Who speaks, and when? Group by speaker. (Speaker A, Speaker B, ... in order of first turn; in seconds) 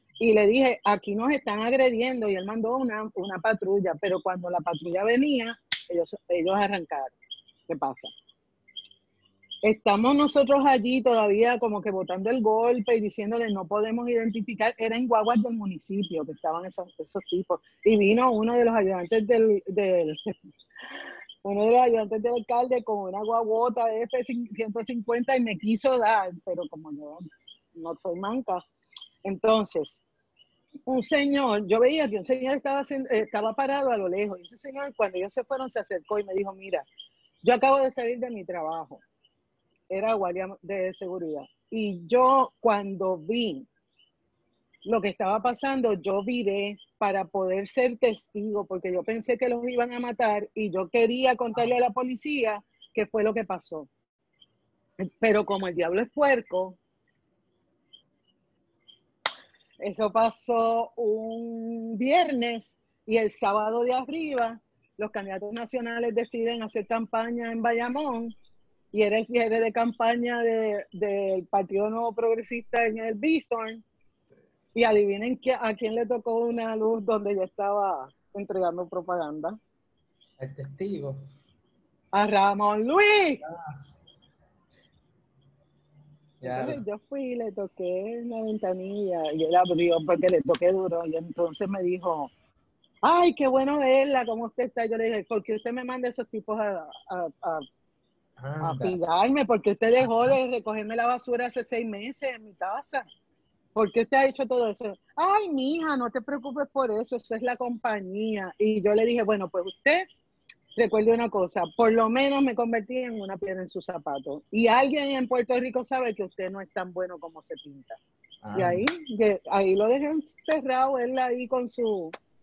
Speaker A: 0.2-7.2, 7.7-8.1, 9.6-20.3, 21.4-27.2, 27.7-28.6, 29.2-30.0, 30.9-36.9, 37.4-39.0, 39.9-43.7, 44.9-53.9, 55.0-56.8, 59.8-68.3, 68.9-73.8, 74.7-79.6, 82.1-83.4, 86.4-92.3, 93.0-97.6, 98.6-103.0, 103.7-110.1, 110.8-118.0, 118.5-122.1
Speaker B: 80.4-81.3, 83.4-83.8, 86.4-86.8, 98.4-99.0, 100.0-100.3, 118.4-118.8